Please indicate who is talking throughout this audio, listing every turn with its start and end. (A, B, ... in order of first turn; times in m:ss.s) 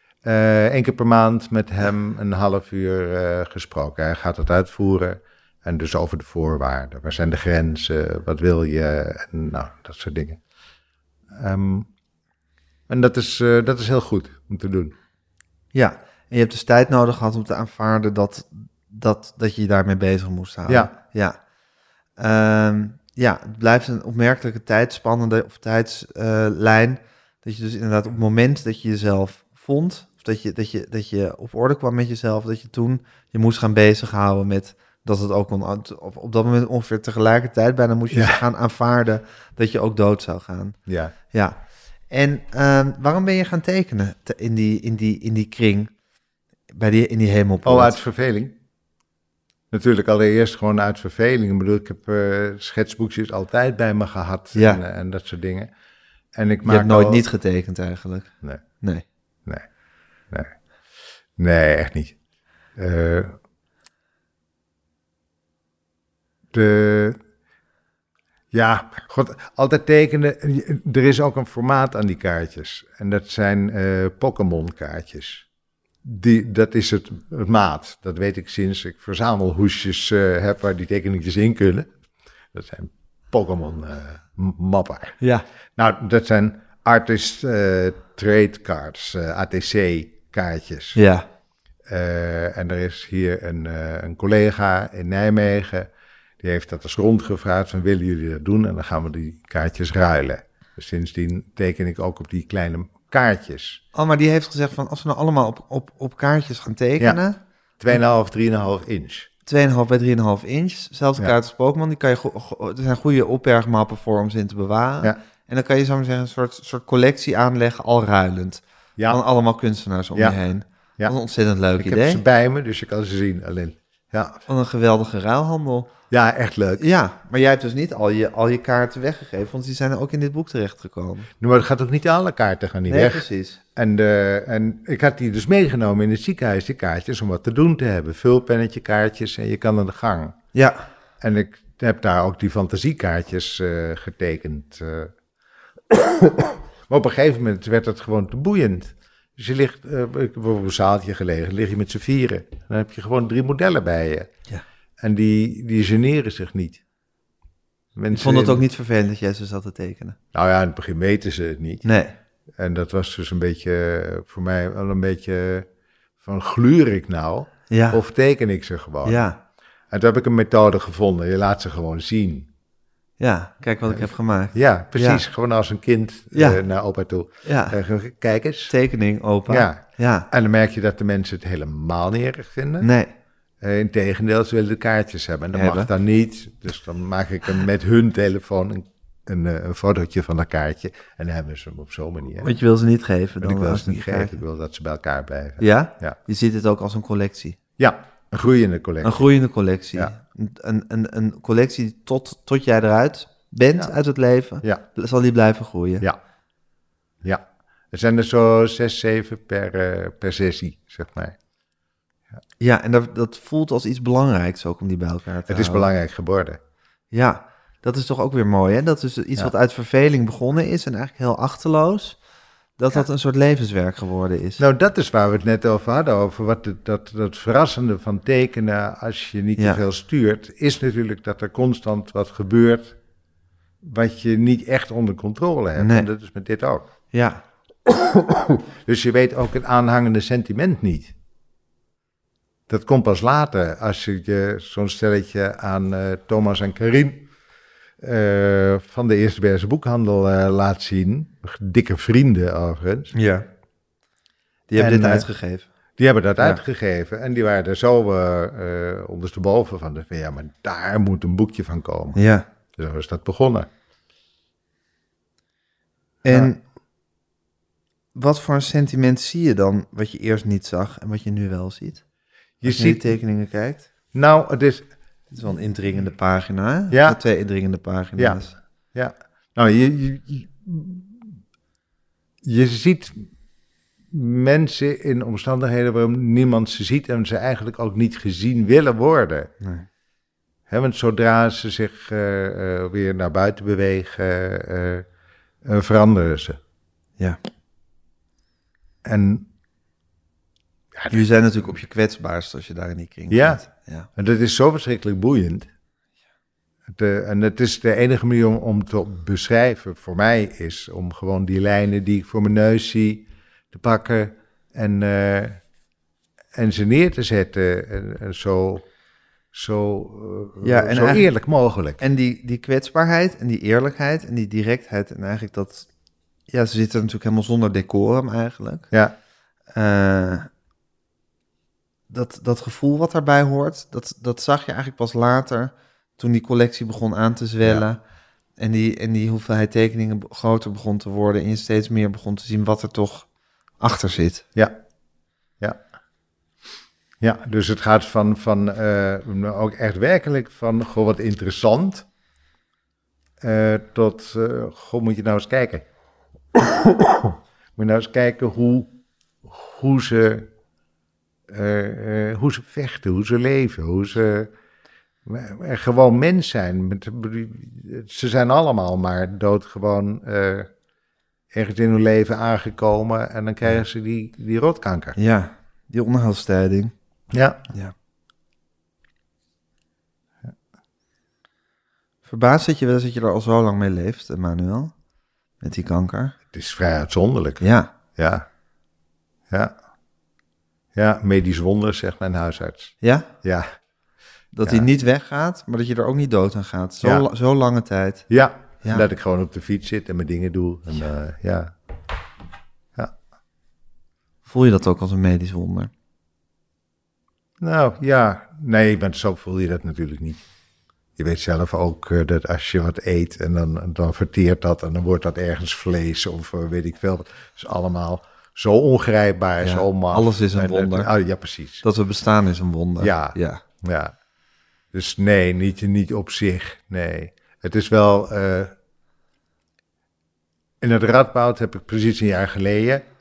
0:00.2-0:10.4 A
0:11.3-0:11.9 A
0:12.9-0:15.0 A
0:15.7-0:21.4 B
0:20.7-0:20.9 A
0:22.2-0:40.8 B
0:38.1-0:38.4 A
0:40.9-0:41.2 A
0:41.3-0:45.9 B
0:46.7-0:48.0 B
0:47.6-0:48.6 A
0:49.7-0:55.7 A
0:54.6-0:54.8 B
0:56.4-0:57.3 A
0:56.6-0:59.0 B
1:01.4-1:02.2 A
1:02.8-1:03.4 A
1:06.5-1:07.2 A
1:08.5-1:15.5 A
1:16.0-1:21.9 A
1:22.5-1:25.2 A
1:25.2-1:25.5 B
1:25.8-1:31.0 A
1:31.0-1:31.3 B
1:31.9-1:35.9 A
1:36.4-1:43.8 A
1:43.9-1:47.4 B
1:47.8-1:49.3 A
1:49.5-2:02.2 B
2:01.8-2:04.4 A
2:04.5-2:05.9 B
2:06.1-2:06.9 A
2:06.8-2:11.3 B
2:11.4-2:20.4 A
2:12.9-2:13.6 B
2:20.5-2:20.8 B
2:21.2-2:25.1 A
2:25.9-2:34.3 A
2:35.0-2:36.8 A
2:38.0-2:38.6 A
2:38.1-2:40.2 B
2:40.3-2:41.9 A
2:41.8-2:42.2 B
2:42.6-2:45.7 A
2:46.2-2:49.2 A
2:47.7-2:48.0 B
2:49.0-2:49.4 B
2:49.9-2:52.5 A
2:53.2-2:55.2 B
2:53.9-2:58.7 A
2:56.3-2:56.6 B
2:57.4-2:57.8 B
2:58.7-3:00.3 B
2:59.5-3:02.9 A
3:02.8-3:03.1 B
3:03.6-3:12.6 A
3:05.5-3:05.9 B
3:12.4-3:14.4 B
3:13.4-3:16.2 A
3:15.6-3:17.6 B
3:17.8-3:19.3 A
3:19.0-3:26.1 B
3:27.2-3:31.4 A
3:32.6-3:35.9 B
3:35.5-3:36.6 A
3:37.1-3:42.2 B
3:42.8-3:44.6 B
3:44.6-3:53.0 A
3:53.8-3:56.9 A
3:55.8-3:56.1 B
3:57.1-3:57.4 B
3:58.2-4:01.1 A
4:02.7-4:07.3 A
4:08.0-4:13.1 A
4:13.1-4:13.5 B
4:14.7-4:15.7 B
4:14.8-4:15.3 A
4:16.0-4:22.2 A
4:22.2-4:22.5 B
4:22.8-4:23.7 A
4:26.2-4:26.6 B
4:26.3-4:26.6 A
4:28.2-4:32.0 B
4:32.6-4:33.1 A
4:32.6-4:33.9 B
4:34.1-4:34.9 A
4:35.3-4:38.5 B
4:36.9-4:37.2 A
4:38.2-4:41.4 A
4:42.4-4:43.3 A
4:44.1-4:49.5 A
4:49.6-4:49.9 B
4:50.7-4:55.1 A
4:55.6-4:56.6 A
4:59.0-4:59.5 A
5:01.0-5:01.6 A
5:01.1-5:04.1 B
5:03.3-5:03.6 A
5:04.2-5:05.7 A
5:06.9-5:15.6 A
5:16.5-5:18.9 A
5:19.5-5:22.0 A
5:20.6-5:21.3 B
5:22.0-5:25.9 B
5:26.5-5:28.9 B
5:29.7-5:30.5 B
5:32.1-5:38.0 B
5:38.6-5:43.3 B
5:43.8-5:44.4 B
5:47.2-5:52.1 A
5:53.4-5:55.9 A
5:57.0-5:58.9 A
5:59.4-6:00.5 A
6:01.5-6:04.5 A
6:05.3-6:10.7 A
6:11.5-6:15.2 A
6:15.2-6:16.9 B
6:17.3-6:17.6 A
6:22.3-6:24.9 B
6:25.6-6:26.4 B
6:26.5-6:28.5 A
6:27.6-6:27.9 B
6:29.5-6:29.8 A
6:31.0-6:33.7 A
6:33.0-6:33.3 B
6:34.5-6:38.3 B
6:34.6-6:34.9 A
6:37.0-6:37.3 A
6:38.3-6:41.7 A
6:44.4-6:45.9 B
6:47.6-6:50.4 A
6:51.2-7:01.8 A
6:59.6-7:01.1 B
7:01.8-7:03.6 B
7:03.0-7:04.1 A
7:04.9-7:08.7 A
7:10.8-7:13.1 A